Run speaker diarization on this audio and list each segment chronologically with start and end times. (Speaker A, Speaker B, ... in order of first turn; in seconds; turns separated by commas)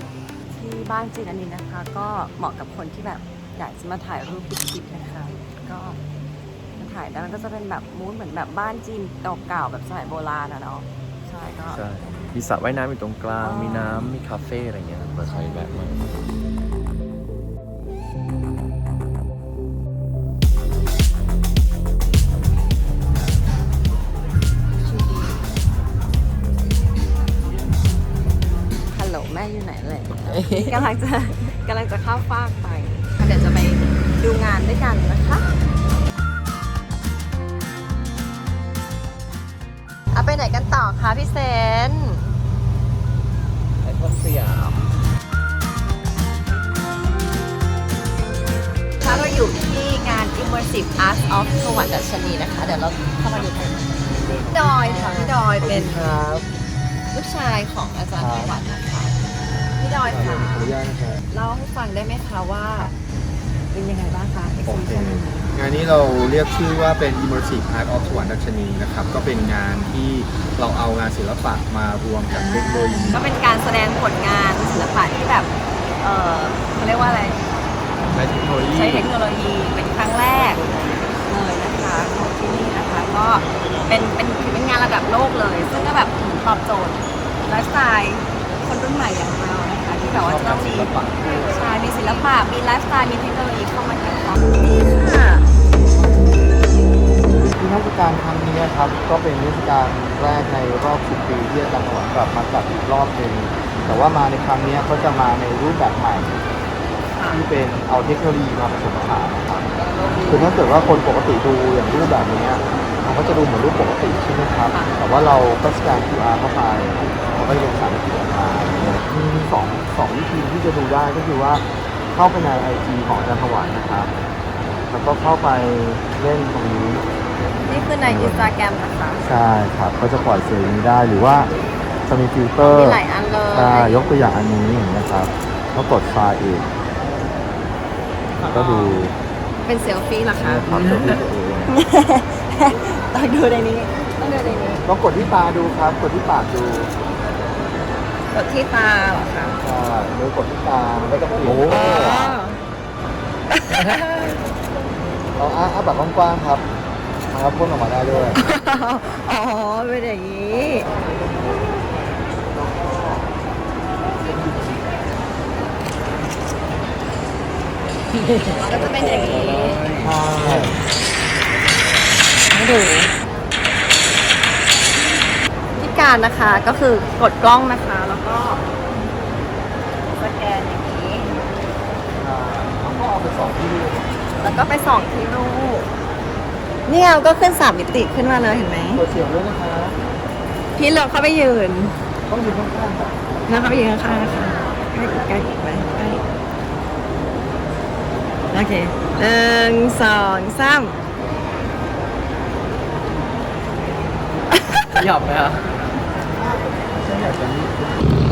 Speaker A: 0.5-6.0, Speaker A: 6.8-11.8, Speaker B: 11.7-16.1, Speaker A: 13.4-14.1, Speaker A: 15.3-15.6, Speaker A: 24.8-25.4, Speaker A: 28.9-35.5, Speaker B: 30.3-30.8, Speaker A: 40.1-42.4, Speaker B: 43.8-44.8, Speaker A: 49.0-53.9, Speaker C: 54.0-56.5, Speaker A: 54.5-56.2, Speaker A: 57.1-59.2, Speaker C: 58.2-58.5, Speaker A: 59.8-60.8, Speaker C: 60.0-61.2, Speaker A: 61.3-62.9, Speaker A: 63.7-65.5, Speaker C: 64.6-73.2, Speaker A: 72.3-77.4, Speaker B: 78.1-79.1, Speaker A: 78.7-80.6, Speaker A: 81.2-95.5, Speaker B: 90.1-91.7, Speaker C: 97.5-106.4, Speaker A: 107.2-107.5, Speaker C: 107.3-109.7, Speaker A: 109.9-110.6, Speaker C: 110.3-124.1, Speaker A: 114.7-115.3, Speaker C: 124.9-127.0, Speaker A: 127.6-129.4, Speaker C: 128.0-128.5, Speaker C: 129.2-131.5, Speaker C: 132.1-136.7, Speaker A: 132.6-134.2, Speaker A: 138.5-139.0, Speaker C: 138.5-139.1, Speaker A: 139.6-144.8, Speaker C: 140.3-141.7, Speaker B: 140.7-140.9, Speaker C: 144.8-146.9, Speaker A: 148.3-149.6, Speaker C: 149.6-152.4, Speaker B: 151.4-151.7, Speaker A: 151.6-152.6, Speaker A: 153.5-154.4, Speaker C: 155.4-156.7, Speaker C: 157.3-158.4, Speaker A: 158.4-160.9, Speaker C: 164.3-164.7, Speaker B: 168.2-170.8, Speaker A: 168.6-169.8, Speaker C: 170.0-170.8, Speaker A: 172.5-173.1, Speaker A: 175.8-178.6, Speaker A: 180.1-181.4, Speaker C: 182.2-184.1, Speaker A: 184.4-185.9, Speaker A: 186.9-189.0, Speaker C: 188.9-190.0, Speaker A: 190.8-192.0, Speaker C: 192.3-194.3, Speaker A: 193.5-196.2, Speaker A: 198.5-201.0, Speaker B: 204.9-205.7, Speaker C: 206.3-208.1